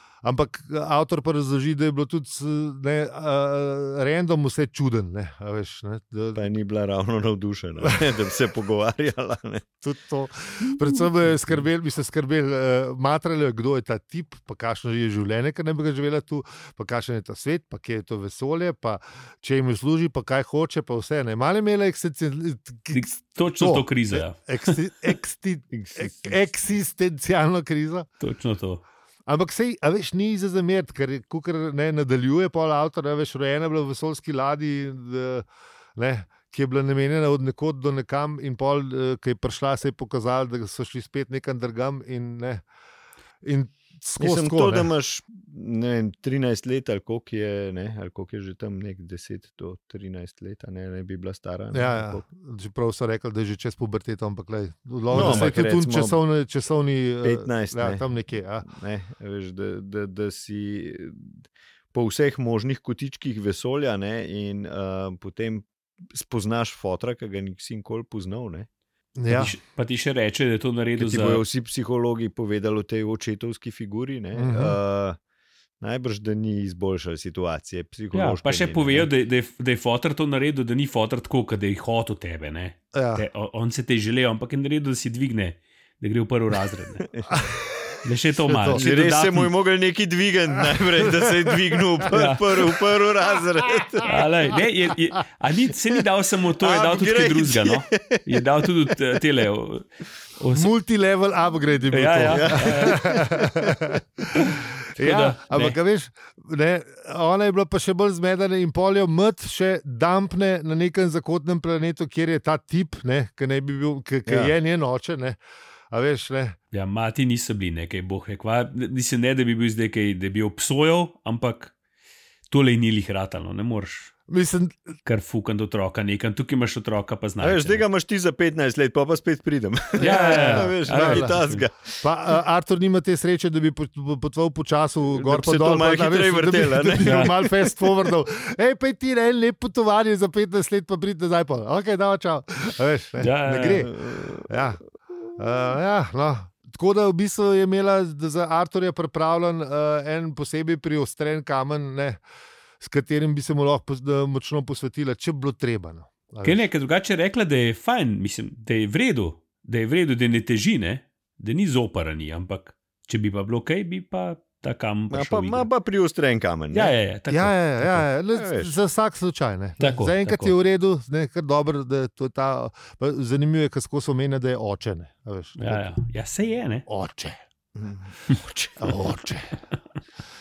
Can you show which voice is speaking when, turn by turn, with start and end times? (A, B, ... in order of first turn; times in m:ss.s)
0:00.2-0:06.5 A
0:06.4-0:09.7 B
0:07.8-0:08.1 A
0:09.8-0:28.1 A
0:22.9-0:24.8 C
0:25.7-0:26.4 B
0:28.2-0:28.8 C
0:29.3-0:42.6 A
0:43.4-0:44.9 A
0:44.2-0:52.2 B
0:51.7-0:58.7 A
0:55.1-0:56.2 B
0:55.2-0:55.5 C
0:57.2-0:58.0 B
0:58.6-1:08.7 B
1:09.2-1:09.6 A
1:09.3-1:11.4 C
1:11.0-1:15.2 B
1:14.4-1:14.8 A
1:15.8-1:19.1 B
1:18.1-1:27.1 C
1:22.9-1:23.2 A
1:27.3-1:28.8 A
1:28.0-1:29.5 C
1:28.7-1:34.5 B
1:30.6-1:32.1 A
1:32.1-1:32.5 C
1:33.4-1:34.0 A
1:34.0-1:40.7 C
1:36.6-1:38.4 B
1:40.6-1:55.4 A
1:41.9-1:43.0 C
1:42.3-1:43.9 B
1:44.3-1:45.8 C
1:54.3-1:54.5 B
1:55.9-1:56.6 A
1:56.7-2:01.7 C
2:02.5-2:04.1 C
2:04.3-2:04.8 A
2:05.0-2:07.8 C
2:07.4-2:12.0 B
2:10.0-2:11.4 A
2:10.0-2:11.6 C
2:12.0-2:24.8 A
2:15.2-2:17.9 B
2:17.0-2:17.3 C
2:23.2-2:23.9 C
2:23.8-2:24.6 B
2:25.4-2:32.2 A
2:32.8-2:36.7 A
2:36.4-2:45.7 C
2:45.1-2:47.0 B
2:46.7-2:48.0 C
2:47.3-2:55.9 A
2:48.3-2:48.8 B
2:49.8-2:50.6 C
2:55.6-2:56.9 C
2:56.9-2:57.4 A
2:57.8-2:59.0 B
2:58.8-2:59.6 A